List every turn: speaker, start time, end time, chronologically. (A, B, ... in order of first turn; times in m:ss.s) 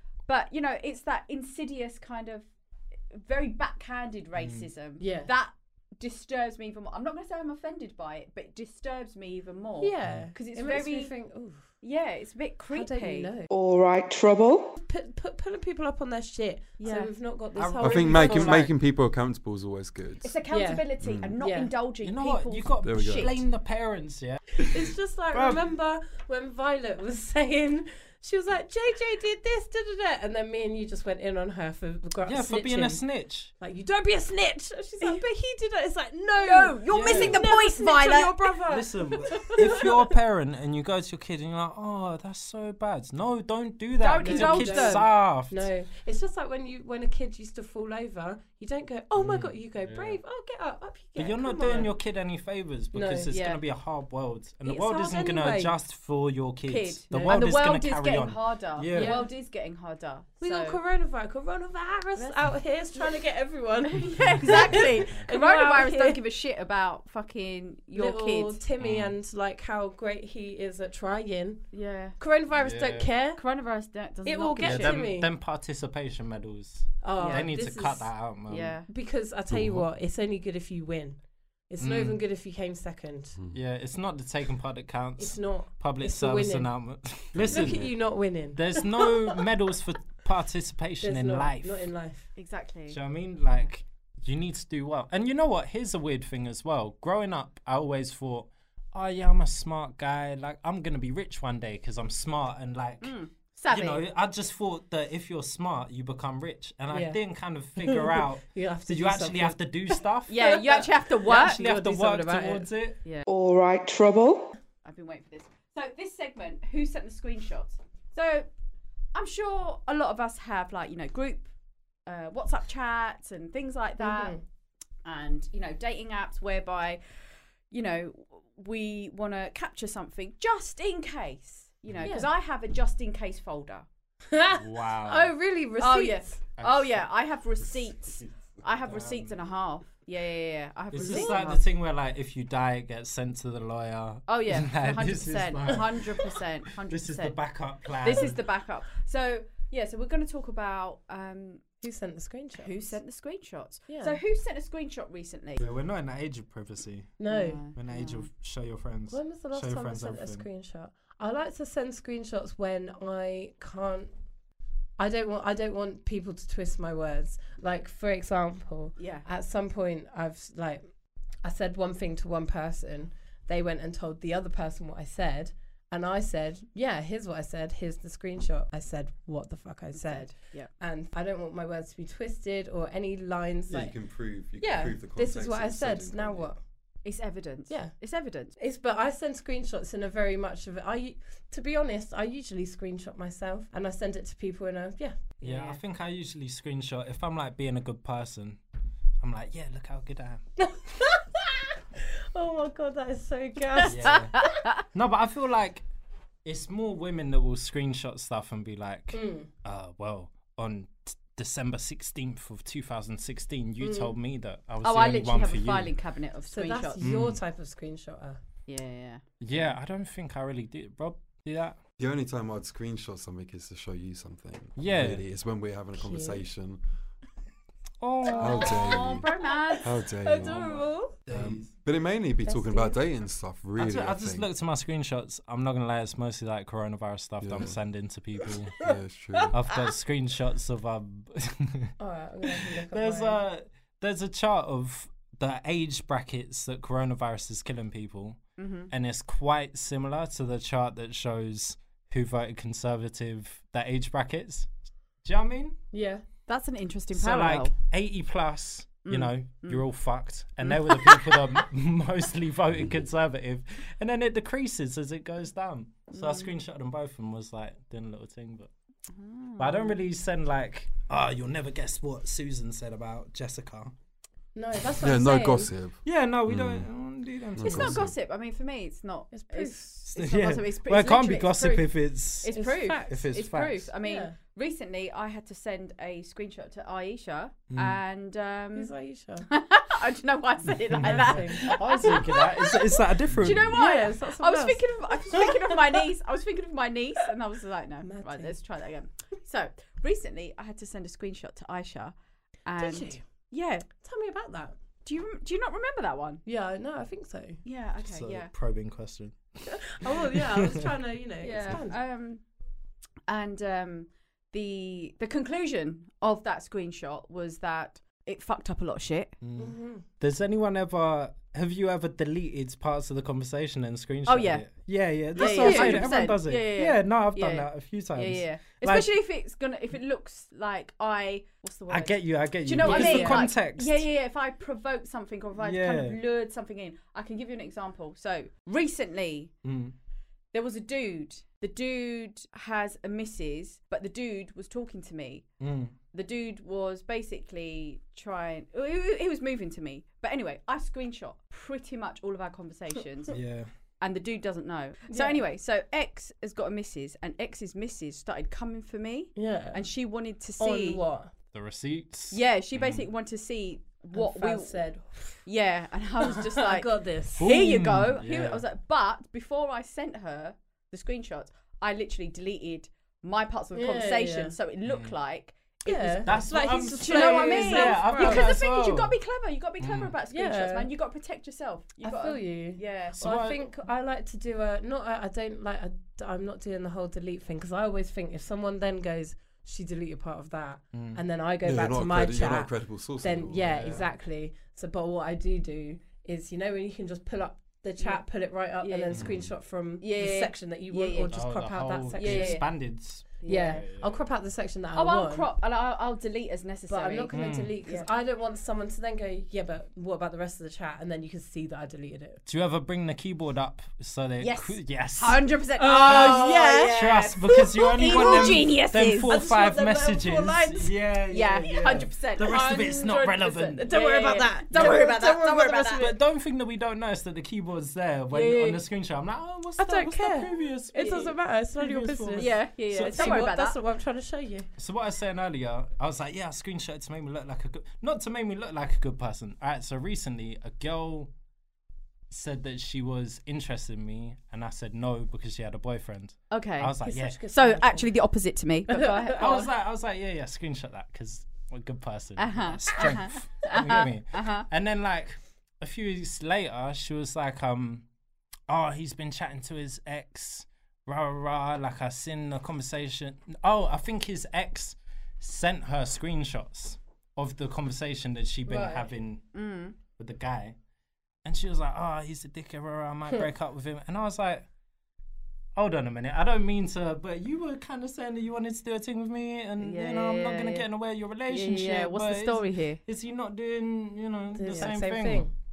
0:00.3-0:02.5 A
0:03.1-0:11.1 A
0:04.4-0:04.7 B
0:05.0-0:05.3 C
0:09.8-0:11.6 C
0:11.8-0:13.3 A
0:12.7-0:13.5 C
0:13.5-0:14.8 D
0:14.8-0:18.7 C
0:16.8-0:17.1 A
0:17.6-0:18.7 B
0:17.8-0:20.3 E
0:20.2-0:23.3 A
0:20.5-0:21.7 C
0:21.0-0:21.4 E
0:22.0-0:25.6 B
0:22.8-0:23.4 E
0:24.7-0:33.0 C
0:32.2-0:33.5 B
0:33.6-0:40.1 C
0:36.4-0:38.6 A
0:36.9-0:37.5 B
0:38.7-0:45.7 B
0:44.0-0:45.1 A
0:44.2-0:52.0 C
0:49.2-0:50.2 B
0:51.2-0:59.2 B
0:52.9-0:53.6 C
0:54.6-0:55.8 C
0:56.7-1:00.8 A
0:57.1-0:57.5 C
0:58.9-0:59.3 C
1:00.4-1:06.2 C
1:02.2-1:03.2 A
1:04.1-1:08.6 A
1:04.1-1:05.2 B
1:07.9-1:13.4 C
1:08.8-1:09.2 B
1:11.7-1:12.2 A
1:12.5-1:13.1 B
1:13.4-1:15.1 A
1:14.2-1:15.3 C
1:14.6-1:18.8 B
1:17.0-1:18.2 C
1:17.2-1:17.5 A
1:18.5-1:18.9 A
1:18.9-1:23.4 C
1:19.5-1:19.9 E
1:21.8-1:22.2 B
1:23.5-1:27.9 B
1:25.2-1:26.7 C
1:27.3-1:27.9 E
1:27.5-1:29.4 C
1:28.5-1:31.8 B
1:31.0-1:32.2 C
1:32.4-1:33.0 A
1:32.9-1:43.2 B
1:43.0-1:44.0 A
1:43.7-1:53.0 B
1:46.9-1:47.2 C
1:47.8-1:52.7 C
1:50.3-1:51.6 A
1:53.3-1:54.5 D
1:54.8-1:58.5 A
1:59.1-2:01.5 A
2:02.1-2:04.4 A
2:04.0-2:04.4 C
2:05.0-2:07.0 A
2:07.7-2:13.8 A
2:14.3-2:16.4 C
2:14.5-2:15.4 B
2:15.8-2:21.6 A
2:16.6-2:17.0 B
2:18.8-2:19.3 B
2:20.9-2:28.5 B
2:21.0-2:21.5 C
2:24.3-2:27.4 A
2:28.0-2:31.6 A
2:31.8-2:33.0 C
2:32.6-2:35.6 A
2:33.9-2:34.2 C
2:35.6-2:37.2 B
2:37.2-2:37.7 C
2:37.3-2:38.3 A
2:37.7-2:40.4 B
2:39.1-2:44.1 C
2:45.0-2:50.8 C
2:49.0-2:49.3 A
2:51.4-3:04.0 C
2:59.9-3:00.7 A
3:03.7-3:06.5 E
3:04.6-3:06.6 C
3:07.0-3:08.5 A
3:08.6-3:15.3 C
3:15.4-3:15.8 A
3:15.4-3:18.6 B
3:19.2-3:20.4 B
3:20.6-3:21.7 C
3:22.3-3:24.5 C
3:23.8-3:24.7 A
3:23.9-3:25.8 B
3:26.4-3:36.0 B
3:29.1-3:29.5 C
3:33.8-3:34.1 C
3:34.8-3:37.1 A
3:36.5-3:38.4 C
3:37.0-3:37.4 B
3:38.7-3:39.2 A
3:39.4-3:41.8 B
3:42.0-3:46.8 E
3:44.8-3:45.2 B
3:45.9-3:46.4 C
3:48.0-3:49.0 B
3:48.3-3:50.7 A
3:48.3-3:51.2 C
3:48.4-3:49.3 E
3:49.8-3:50.7 E
3:51.3-3:51.7 B
3:51.3-3:54.5 E
3:52.4-3:53.0 C
3:53.8-3:58.8 B
3:57.4-3:57.7 E
3:58.8-3:59.6 E
3:59.4-3:59.9 C
3:59.5-4:14.7 B
4:02.0-4:03.4 C
4:08.6-4:08.9 A
4:15.2-4:15.8 B
4:15.9-4:16.2 C
4:16.5-4:17.8 A
4:17.1-4:28.7 B
4:19.0-4:19.8 A
4:20.6-4:21.6 A
4:26.1-4:26.5 A
4:29.1-4:30.0 A
4:29.6-4:33.9 B
4:34.6-4:35.7 C
4:35.0-4:36.9 E
4:36.0-4:38.1 B
4:37.6-4:38.1 E
4:37.6-4:41.9 A
4:39.3-4:39.9 C
4:40.1-4:42.6 B
4:42.4-4:48.9 A
4:42.5-4:43.3 C
4:43.1-4:43.9 B
4:44.0-4:44.3 C
4:47.7-4:48.0 B
4:48.8-4:49.5 C
4:49.5-5:03.9 A
4:50.9-4:53.9 B
4:51.0-4:52.4 C
4:53.6-4:56.0 C
4:58.0-4:58.6 C
5:02.8-5:03.2 C
5:03.9-5:04.8 C
5:05.0-5:06.4 A
5:06.5-5:07.6 C
5:07.6-5:08.5 A
5:08.0-5:10.9 B
5:09.7-5:12.0 C
5:11.4-5:12.4 A
5:13.3-5:19.4 A
5:19.4-5:29.1 B
5:19.6-5:20.1 C
5:24.3-5:24.7 A
5:25.4-5:39.5 A
5:25.4-5:26.1 C
5:31.9-5:34.0 B
5:32.8-5:33.5 C
5:35.6-5:36.2 B
5:39.6-5:40.0 B
5:40.5-5:45.5 A
5:45.6-5:46.0 B
5:46.1-5:53.4 A
5:53.3-5:53.7 B
5:54.0-6:01.0 A
5:55.1-5:55.4 C
5:59.4-5:59.8 C
6:00.6-6:01.3 C
6:01.5-6:03.0 B
6:02.3-6:04.8 A
6:04.2-6:05.4 C
6:05.4-6:23.2 A
6:06.4-6:07.4 C
6:07.4-6:08.6 B
6:13.7-6:14.6 C
6:14.9-6:15.1 B
6:15.8-6:18.5 C
6:16.2-6:19.2 B
6:19.8-6:20.2 B
6:20.3-6:20.9 C
6:22.0-6:42.7 C
6:23.2-6:23.6 B
6:30.9-6:31.2 B
6:31.6-6:34.0 E
6:33.7-6:34.1 B
6:38.8-6:39.2 A
6:39.1-6:39.4 B
6:39.2-6:39.5 E
6:40.0-6:41.3 A
6:41.3-6:44.2 B
6:42.2-6:42.7 A
6:43.2-6:43.8 A
6:43.5-6:45.5 C
6:44.9-6:48.1 A
6:46.9-6:52.4 C
6:47.3-6:47.8 B
6:52.4-6:55.4 B
6:54.4-6:59.4 A
6:55.8-6:56.9 C
6:56.0-7:03.9 B
6:57.5-6:58.8 C
6:59.3-7:01.0 C
7:01.3-7:06.1 A
7:02.4-7:06.2 C
7:04.8-7:05.0 B
7:06.0-7:13.5 B
7:08.3-7:08.8 A
7:09.8-7:12.6 C
7:10.9-7:11.4 A
7:12.4-7:13.8 A
7:13.1-7:14.7 C
7:14.8-7:21.3 B
7:22.3-7:27.4 B
7:26.5-7:29.7 A
7:27.0-7:28.1 C
7:28.9-7:29.6 C
7:29.4-7:38.1 B
7:32.4-7:34.7 A
7:38.7-7:49.5 B
7:48.7-7:49.1 C
7:49.5-7:50.0 A
7:50.1-7:50.8 B
7:51.4-7:54.7 B
7:55.8-8:05.5 B
7:59.8-8:00.9 A
8:01.5-8:03.0 A
8:04.5-8:05.5 C